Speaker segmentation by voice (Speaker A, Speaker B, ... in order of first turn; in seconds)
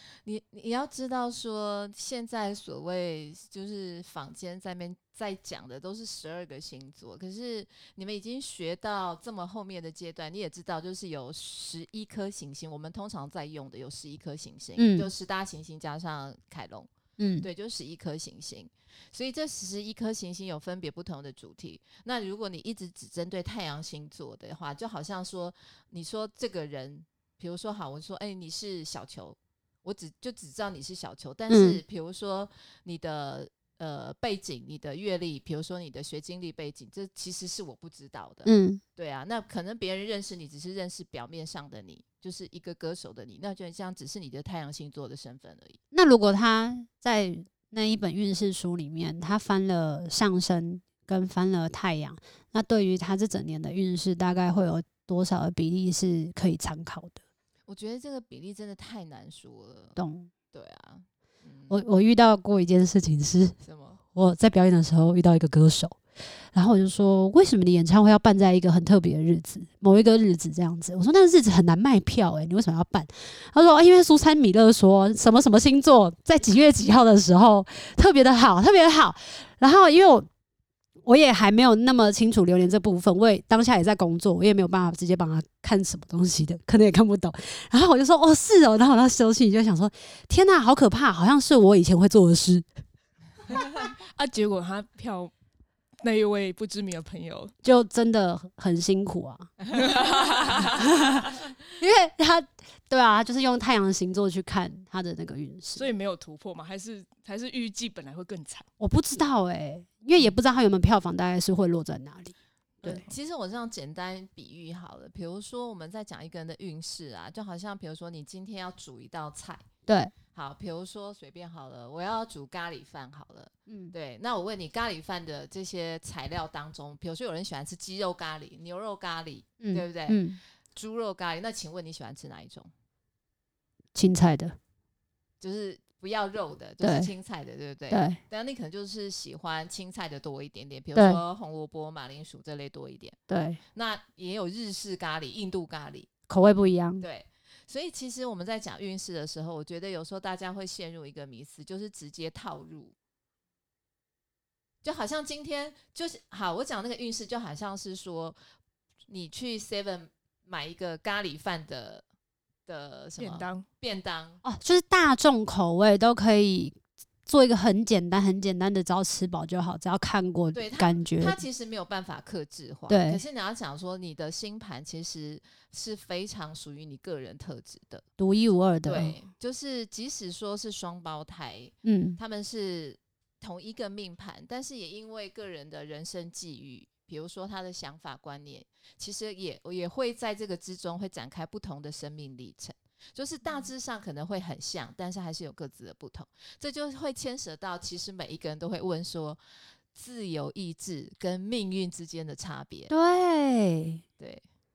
Speaker A: 0.2-16.9, 17.4-45.8, 57.7-60.0, 60.5-61.8, 63.6-64.0, 112.8-119.6, 120.3-130.2, 130.7-132.7, 135.4-143.2, 143.7-146.1, 147.0-152.9, 154.8-158.4, 159.1-162.0, 162.7-164.4, 170.5-178.1, 178.8-199.4, 199.9-202.9
Speaker B: 14.8-15.1, 17.2-17.5, 31.5-31.8, 38.5-38.8, 45.9-57.2, 60.0-60.3, 61.7-63.5, 64.1-66.0, 66.5-80.3, 81.0-92.6, 97.6-99.5, 100.7-105.9, 108.8-113.0, 119.8-120.1, 123.7-123.9, 129.6-130.4, 133.9-134.6, 136.8-137.1, 137.9-138.2, 140.9-141.2, 143.3-143.6, 146.3-147.0, 164.4-171.4, 172.9-173.2, 178.2-179.2, 181.8-182.2, 202.9-204.0
Speaker C: 93.8-95.3, 96.0-97.5, 99.7-100.9, 105.7-108.7, 163.2-163.6